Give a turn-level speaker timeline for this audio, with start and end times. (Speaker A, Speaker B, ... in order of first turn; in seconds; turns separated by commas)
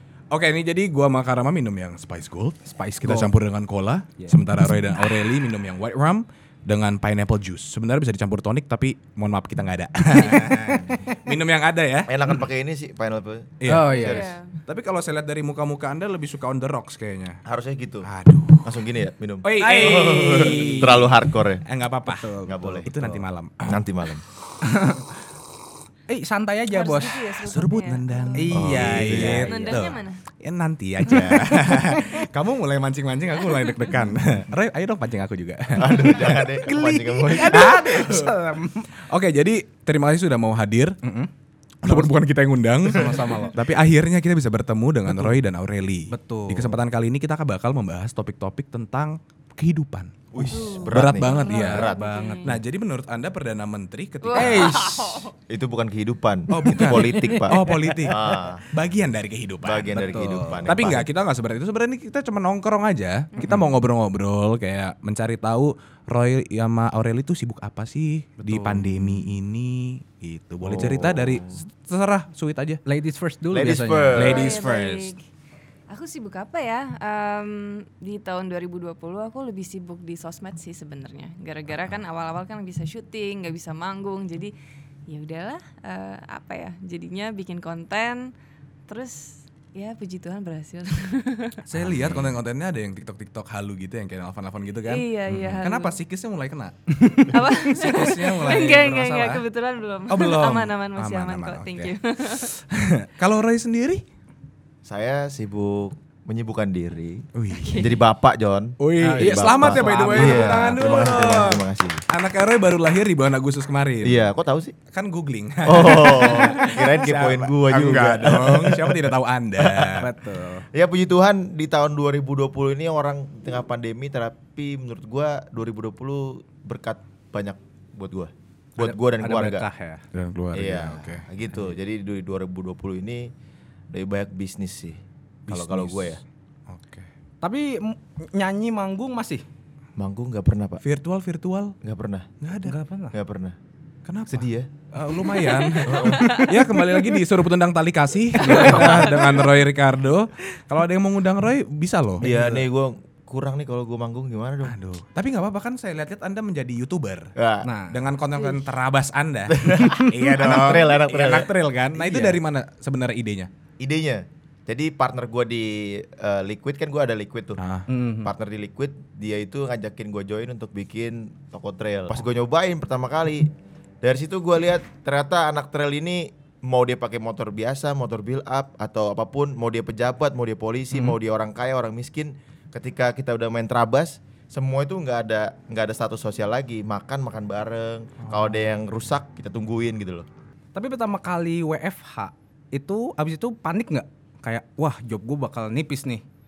Speaker A: 0.3-12.1, Speaker B: 2.7-3.3, Speaker B: 4.2-5.0, Speaker C: 12.1-14.3, Speaker A: 13.6-17.4, Speaker B: 13.7-14.3, Speaker D: 13.9-14.5, Speaker C: 17.4-18.1, Speaker A: 18.1-18.7, Speaker C: 18.6-21.6, Speaker A: 19.4-23.8, Speaker B: 19.6-21.0, Speaker B: 22.1-23.2, Speaker C: 22.4-22.9, Speaker C: 23.6-24.2, Speaker B: 24.6-25.0, Speaker B: 26.1-27.2, Speaker D: 26.7-28.5, Speaker A: 27.4-36.5, Speaker B: 28.4-29.9, Speaker C: 28.5-29.5, Speaker D: 29.4-30.2, Speaker B: 31.0-32.2, Speaker C: 35.8-38.0, Speaker B: 36.6-38.9, Speaker A: 37.4-38.3, Speaker A: 39.1-41.0, Speaker B: 41.0-41.3, Speaker A: 41.8-51.9, Speaker B: 42.9-43.6, Speaker B: 45.1-45.4, Speaker B: 46.1-46.8, Speaker C: 50.3-52.0, Speaker D: 50.5-52.6, Speaker B: 51.5-52.6, Speaker A: 52.4-54.9, Speaker D: 54.2-55.3, Speaker B: 54.3-55.1, Speaker C: 55.5-58.6, Speaker A: 56.5-72.8, Speaker B: 56.6-58.2, Speaker C: 59.6-61.1, Speaker B: 60.0-60.7, Speaker B: 68.4-69.2, Speaker C: 70.6-71.6, Speaker B: 72.8-74.3, Speaker C: 73.5-74.6, Speaker A: 74.1-75.1, Speaker D: 74.2-75.2, Speaker D: 75.9-84.5, Speaker D: 85.1-88.3, Speaker D: 88.9-91.6, Speaker A: 91.7-99.4, Speaker B: 91.8-92.2, Speaker D: 94.9-96.0, Speaker B: 97.0-97.3, Speaker D: 97.3-102.5, Speaker A: 100.1-104.0, Speaker C: 104.8-107.2, Speaker A: 107.3-107.8, Speaker D: 107.6-107.9, Speaker C: 107.8-112.0, Speaker A: 108.8-114.3, Speaker B: 109.0-111.0, Speaker C: 114.0-114.8, Speaker A: 114.9-120.1, Speaker C: 115.6-120.1, Speaker B: 120.0-120.7, Speaker C: 120.7-129.7, Speaker B: 128.8-130.0, Speaker A: 130.1-131.2, Speaker C: 130.5-133.3, Speaker C: 133.9-136.2, Speaker A: 135.5-136.2, Speaker A: 136.7-137.1, Speaker B: 137.4-139.4, Speaker C: 140.0-140.8, Speaker A: 140.8-141.8, Speaker C: 141.8-142.3, Speaker A: 142.4-142.8, Speaker B: 142.6-143.1, Speaker C: 143.1-143.6, Speaker A: 144.1-152.2, Speaker C: 144.3-144.7, Speaker B: 145.3-146.9, Speaker C: 145.8-146.4, Speaker D: 146.1-146.6, Speaker B: 148.4-149.2, Speaker C: 148.4-149.1, Speaker D: 148.5-149.4, Speaker C: 152.2-154.8, Speaker B: 152.2-152.7, Speaker A: 154.6-157.3, Speaker C: 157.3-157.7, Speaker B: 157.6-158.0, Speaker A: 157.9-163.5, Speaker C: 159.5-162.4, Speaker C: 163.8-167.6, Speaker A: 167.6-167.9, Speaker B: 167.9-168.3, Speaker C: 168.2-173.5, Speaker C: 174.0-190.3, Speaker B: 190.7-196.2